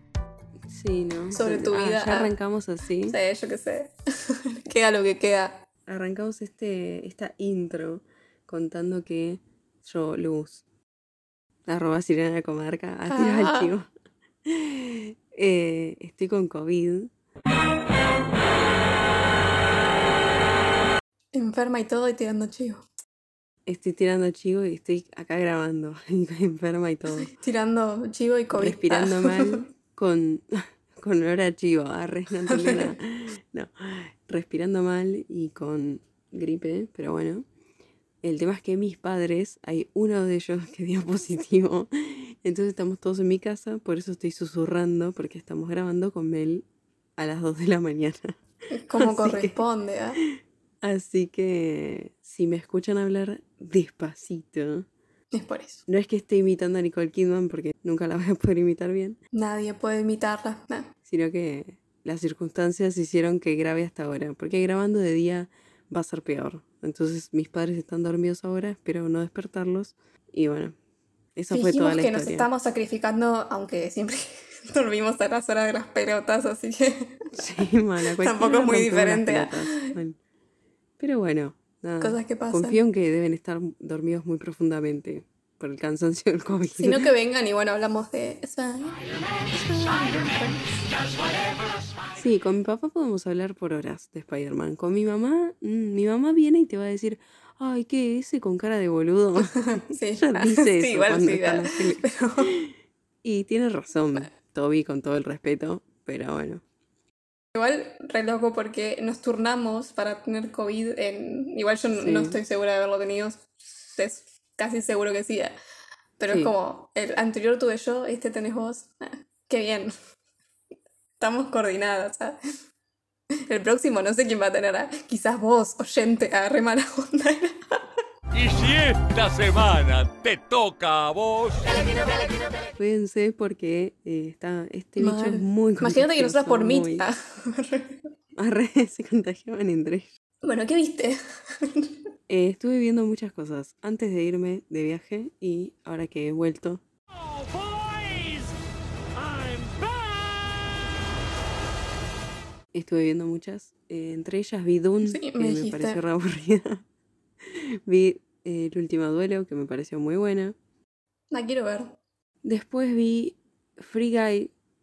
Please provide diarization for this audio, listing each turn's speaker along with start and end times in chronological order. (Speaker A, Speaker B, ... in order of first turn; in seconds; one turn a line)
Speaker A: 0.7-3.2
Speaker B: 1.3-2.3
Speaker B: 3.0-5.6
Speaker A: 5.9-10.6
Speaker A: 11.7-13.9
Speaker B: 13.1-13.7
Speaker A: 14.4-17.1
Speaker B: 21.3-22.8
Speaker A: 23.6-27.3
Speaker B: 27.2-29.6
Speaker A: 28.5-37.5
Speaker B: 32.5-32.9
Speaker A: 38.2-46.6
Speaker A: 47.2-48.4
Speaker B: 48.7-50.2
Speaker A: 49.0-49.5
Speaker A: 50.8-54.9
Speaker B: 55.3-55.8
Speaker A: 55.9-59.2
Speaker B: 59.3-60.9
Speaker A: 61.1-70.7
Speaker A: 71.3-72.5
Speaker B: 71.5-77.6
Speaker A: 77.3-80.2
Speaker B: 78.2-79.9
Speaker A: 81.0-87.1
Speaker B: 82.0-82.8
Speaker B: 86.8-90.6
Speaker A: 92.1-106.6
Speaker B: 99.4-102.5
Speaker B: 107.5-115.5
Speaker A: 112.0-112.4
Speaker B: 116.2-119.9
Speaker A: 116.3-116.5
Speaker B: 121.2-122.4
Speaker B: 123.5-127.8
Speaker C: 128.3-131.8
Speaker A: 132.7-137.0
Speaker B: 135.0-137.9
Speaker A: 138.3-140.1
Speaker B: 140.4-141.9
Speaker A: 142.3-146.8
Speaker C: 147.1-148.5
Speaker C: 149.2-150.7
Speaker A: 152.7-156.8
Speaker B: 155.0-156.0
Speaker A: 157.4-160.6
Speaker B: 161.3-161.9
Speaker A: 162.4-164.5